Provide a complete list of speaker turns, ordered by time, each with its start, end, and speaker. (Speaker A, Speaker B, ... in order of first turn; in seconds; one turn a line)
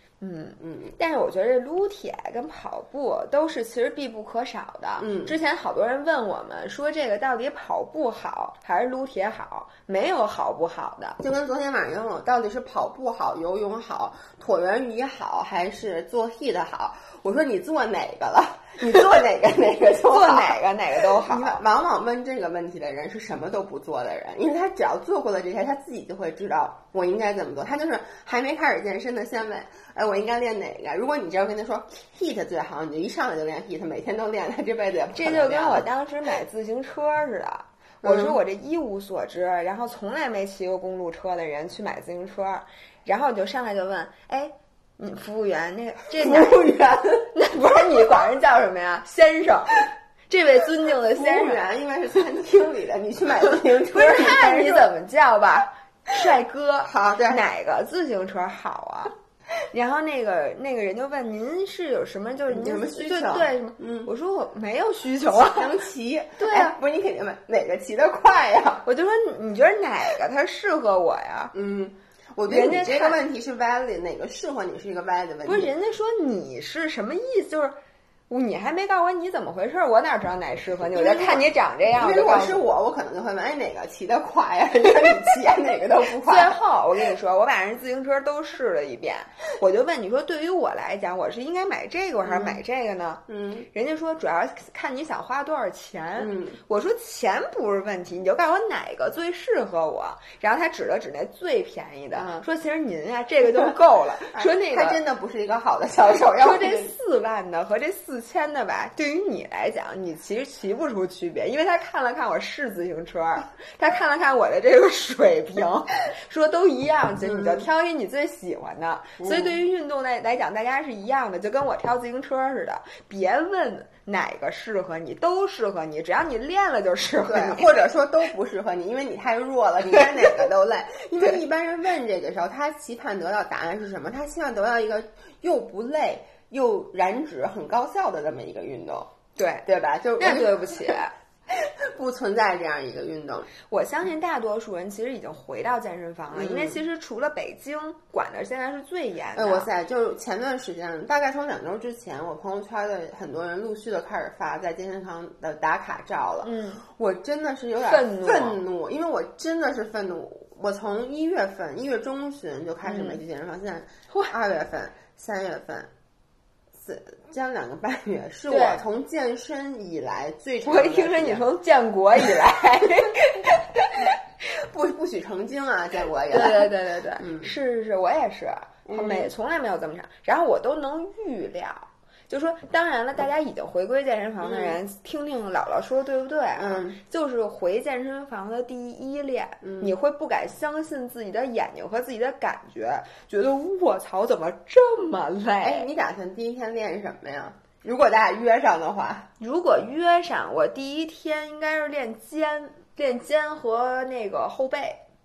Speaker A: 0.2-11.2
Speaker B: 0.6-0.9
Speaker B: 5.0-5.4
Speaker B: 11.2-20.6
Speaker A: 20.1-21.6
Speaker B: 21.2-35.9
Speaker A: 35.1-46.6
Speaker B: 38.0-38.4
Speaker B: 46.2-47.3
Speaker A: 47.3-51.6
Speaker B: 51.1-54.9
Speaker A: 53.9-59.1
Speaker B: 56.9-57.4
Speaker A: 59.7-65.7
Speaker B: 62.5-64.1
Speaker B: 65.3-68.8
Speaker A: 66.4-66.7
Speaker A: 68.8-71.5
Speaker B: 71.5-75.7
Speaker A: 72.5-73.2
Speaker A: 75.5-77.8
Speaker A: 78.3-82.6
Speaker B: 80.9-86.6
Speaker A: 86.2-105.0
Speaker B: 92.2-92.6
Speaker B: 93.3-93.7
Speaker B: 96.2-96.6
Speaker B: 102.1-102.5
Speaker B: 104.3-106.9
Speaker A: 106.4-127.9
Speaker B: 117.2-117.7
Speaker B: 119.2-119.6
Speaker B: 127.2-139.1
Speaker A: 129.9-130.5
Speaker A: 139.4-139.7
Speaker B: 139.7-141.0
Speaker A: 140.2-141.1
Speaker B: 141.5-143.5
Speaker A: 143.7-149.7
Speaker B: 146.3-146.8
Speaker B: 149.3-165.9
Speaker A: 156.4-156.8
Speaker A: 157.8-158.6
Speaker A: 162.8-163.2
Speaker B: 166.8-171.5
Speaker A: 168.5-168.8
Speaker A: 170.7-174.2
Speaker B: 174.5-177.5
Speaker A: 176.3-195.9
Speaker B: 178.9-179.3
Speaker B: 184.4-184.8
Speaker B: 186.6-187.0
Speaker B: 189.6-189.9
Speaker B: 195.6-199.3
Speaker A: 199.4-205.0